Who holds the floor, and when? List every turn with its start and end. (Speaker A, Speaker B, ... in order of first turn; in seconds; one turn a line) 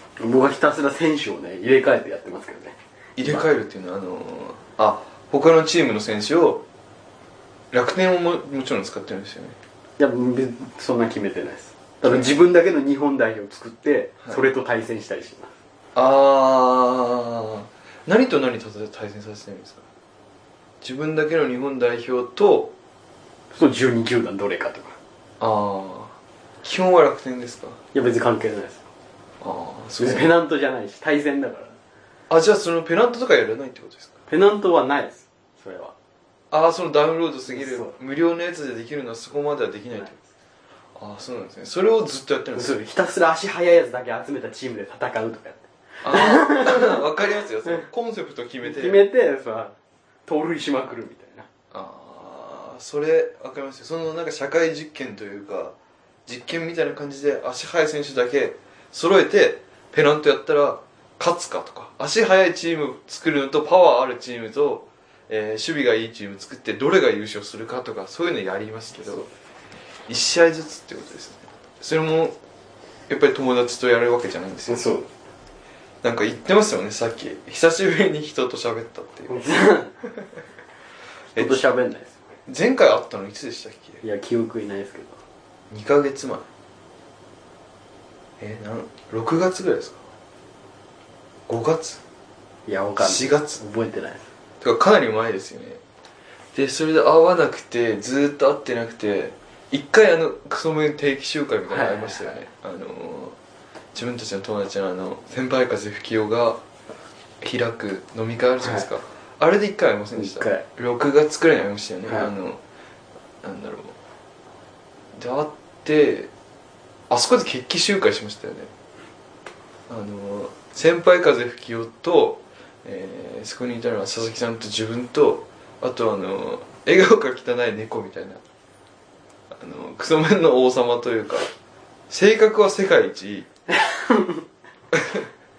Speaker A: 0.2-3.4
Speaker B: 3.1-6.6
Speaker B: 7.7-9.6
Speaker A: 10.0-15.5
Speaker B: 12.0-12.3
Speaker B: 15.9-19.8
Speaker B: 20.8-22.7
Speaker A: 23.5-24.9
Speaker B: 25.4-27.8
Speaker A: 27.9-28.8
Speaker B: 29.4-30.3
Speaker A: 30.0-31.8
Speaker B: 32.3-34.1
Speaker A: 34.3-35.9
Speaker B: 36.5-40.2
Speaker A: 37.5-37.9
Speaker B: 41.0-42.8
Speaker A: 42.5-47.1
Speaker B: 46.0-49.0
Speaker A: 48.6-49.8
Speaker A: 50.3-51.5
Speaker B: 51.7-69.2
Speaker B: 70.1-72.4
Speaker B: 73.1-74.9
Speaker A: 74.7-75.1
Speaker B: 76.0-79.3
Speaker A: 79.3-79.9
Speaker B: 81.3-81.6
Speaker A: 81.4-82.2
Speaker B: 82.5-84.0
Speaker A: 84.0-85.2
Speaker B: 85.7-86.4
Speaker B: 88.4-90.0
Speaker B: 91.5-92.0
Speaker A: 92.7-94.3
Speaker B: 93.0-93.6
Speaker B: 94.6-95.8
Speaker B: 96.5-103.4
Speaker A: 101.7-102.4
Speaker B: 103.9-106.6
Speaker B: 107.4-112.6
Speaker A: 108.6-108.9
Speaker A: 110.2-110.6
Speaker B: 113.4-113.9
Speaker B: 115.1-116.3
Speaker B: 117.1-118.7
Speaker B: 119.9-128.4
Speaker B: 129.5-131.5
Speaker B: 132.1-133.5
Speaker A: 133.8-134.4
Speaker B: 134.9-135.3